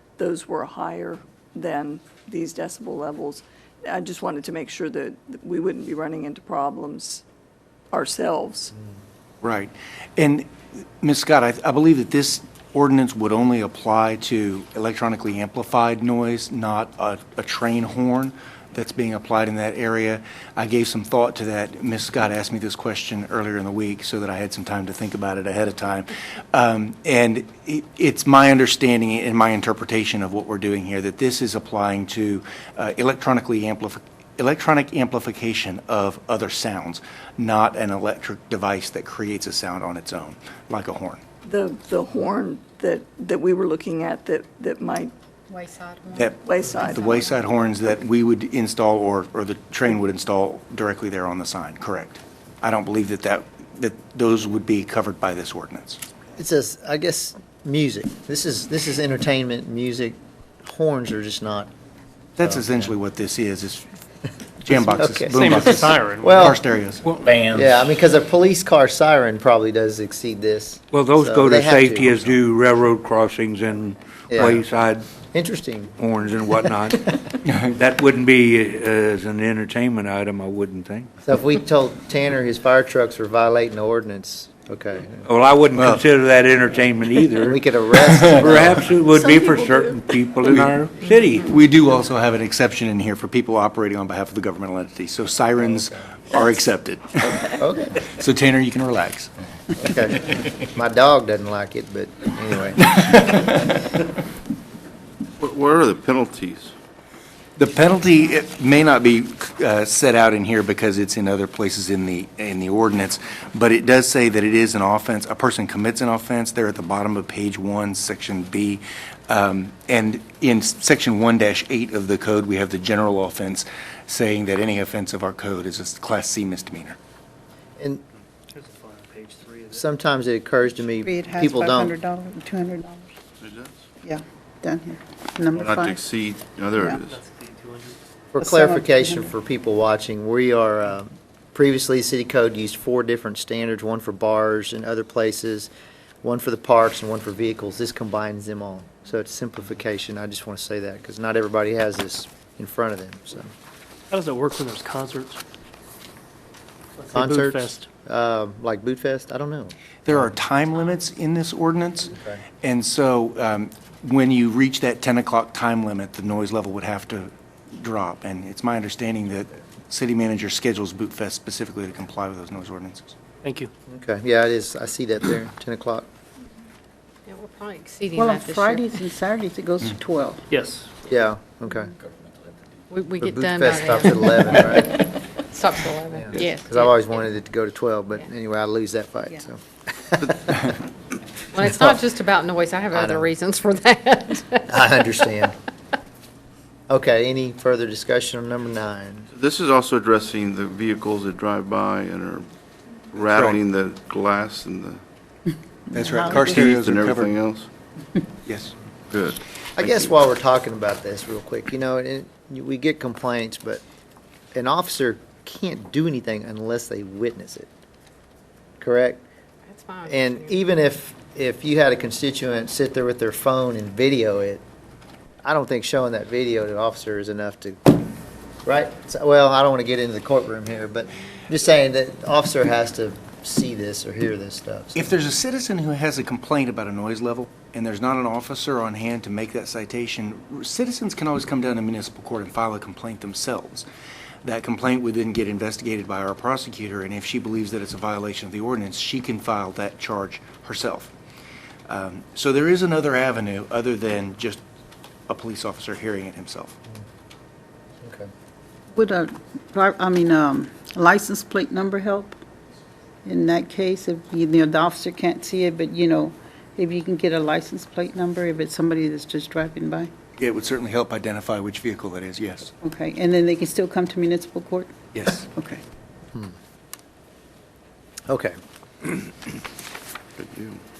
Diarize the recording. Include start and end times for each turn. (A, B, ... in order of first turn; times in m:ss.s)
0:00.2-0:07.2 A
0:07.9-0:08.7 A
0:09.4-0:10.5 B
0:11.0-0:41.2 B
0:41.4-0:45.1 A
0:45.5-0:47.3 C
0:46.1-0:56.0 B
0:46.4-0:47.3 A
0:56.4-1:01.7 D
1:02.4-1:03.9 B
1:02.4-1:02.9 D
1:04.6-1:07.2 B
1:04.7-1:06.6 D
1:05.4-1:06.4 E
1:07.5-1:12.2 D
1:10.9-1:15.1 F
1:14.3-1:14.6 D
1:15.3-1:15.9 D
1:16.0-1:21.1 F
1:17.4-1:17.7 B
1:21.2-1:25.3 D
1:25.2-1:31.4 F
1:25.7-1:26.0 B
1:27.4-1:28.8 D
1:27.9-1:28.8 B
1:29.1-1:30.4 A
1:30.4-1:30.8 B
1:31.3-1:39.3 B
1:35.6-1:36.2 D
1:37.6-1:38.0 D
1:39.8-1:42.8 D
1:42.8-1:43.9 B
1:45.4-1:46.7 G
1:47.6-2:07.0 B
2:07.8-2:08.0 D
2:08.5-2:09.8 E
2:09.7-2:11.9 D
2:11.0-2:13.1 H
2:13.4-2:13.8 G
2:14.0-2:16.0 H
2:15.5-2:17.2 G
2:16.8-2:17.0 H
2:17.1-2:18.0 E
2:18.3-2:25.7 D
2:18.4-2:19.3 H
2:26.2-2:33.5 D
2:34.1-2:35.4 E
2:37.0-2:37.9 E
2:37.1-2:40.4 D
2:40.0-2:53.1 B
2:42.1-2:42.4 D
2:53.4-2:53.7 E
2:53.9-2:56.1 D
2:57.3-2:58.9 C
2:58.1-3:00.4 H
3:00.5-3:00.9 E
3:01.1-3:01.9 D
3:02.9-3:06.9 C
3:03.2-3:05.0 D
3:06.1-3:10.7 D
3:11.5-3:14.9 C
3:11.6-3:12.0 D
3:12.9-3:13.3 D
3:14.7-3:15.5 D
3:16.9-3:19.3 D
3:19.3-3:22.5 G
3:23.1-3:25.0 G
3:23.3-3:23.6 B
3:25.9-3:26.6 H
3:25.9-3:27.3 B
3:26.3-3:27.7 G
3:28.4-3:28.7 B
3:29.1-3:30.1 G
3:29.8-3:33.8 D
3:34.5-3:37.7 D
3:38.8-3:39.2 D
3:39.7-3:40.6 C
3:40.0-3:44.6 D
3:45.4-3:48.0 D
3:48.6-3:55.1 D
3:54.9-4:03.9 B
4:04.4-4:11.1 B
4:11.9-4:14.6 B
4:15.3-4:16.8 B
4:18.0-4:18.3 D
4:18.9-4:22.4 H
4:23.2-4:30.1 H
4:30.4-4:32.7 B
4:32.8-4:35.8 H
4:35.1-4:35.5 B
4:38.3-4:38.6 D
4:40.4-4:40.8 G